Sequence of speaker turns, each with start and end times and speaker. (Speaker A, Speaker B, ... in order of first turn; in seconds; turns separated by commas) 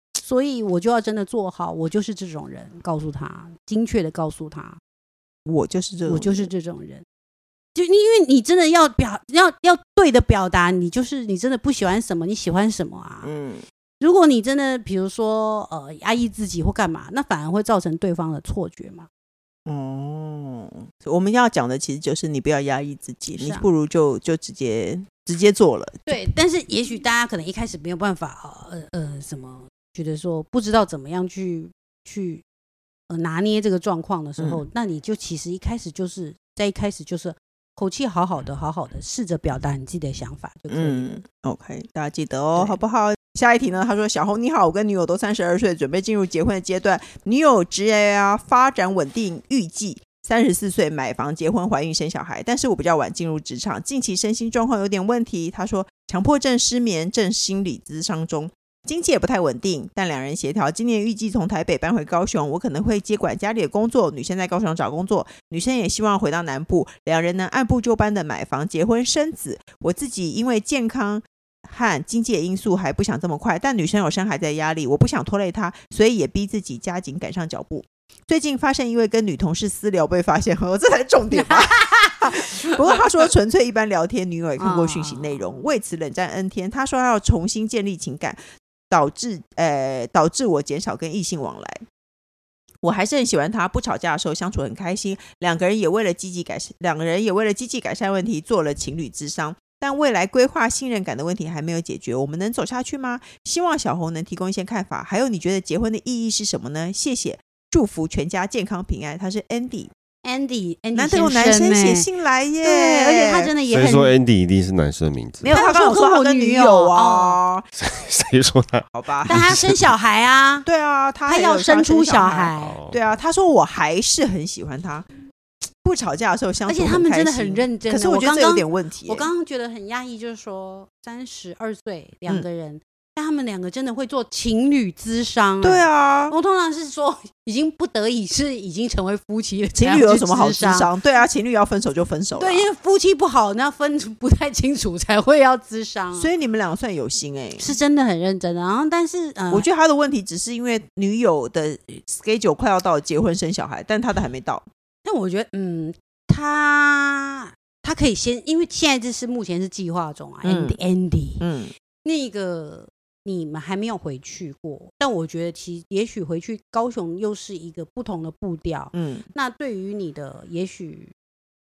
Speaker A: 0.2-4.8, Speaker B: 5.5-6.5, Speaker A: 6.1-7.0, Speaker A: 7.8-13.3, Speaker B: 13.2-13.6, Speaker A: 14.0-19.1, Speaker B: 19.7-26.2, Speaker A: 23.4-23.6, Speaker A: 26.1-32.4, Speaker A: 33.1-41.2, Speaker B: 34.4-34.6, Speaker B: 40.7-88.4, Speaker A: 81.3-83.0, Speaker A: 84.6-85.6, Speaker B: 88.9-91.8, Speaker B: 92.8-109.9, Speaker A: 110.2-112.1, Speaker B: 111.0-113.5, Speaker A: 112.6-114.2, Speaker C: 113.7-115.5, Speaker B: 115.5-117.7, Speaker A: 115.5-117.4, Speaker C: 117.8-119.8, Speaker B: 118.9-119.5, Speaker A: 119.3-120.7, Speaker B: 120.7-125.1, Speaker A: 121.3-122.8, Speaker C: 122.6-123.0, Speaker B: 125.8-129.3, Speaker A: 126.7-140.9, Speaker B: 135.6-136.3, Speaker B: 139.8-142.7, Speaker A: 142.4-146.3, Speaker B: 146.2-147.7, Speaker A: 147.6-149.7, Speaker B: 149.5-154.7, Speaker A: 155.1-161.4, Speaker B: 160.4-160.8, Speaker B: 161.4-161.7, Speaker A: 162.0-171.1, Speaker B: 168.9-169.3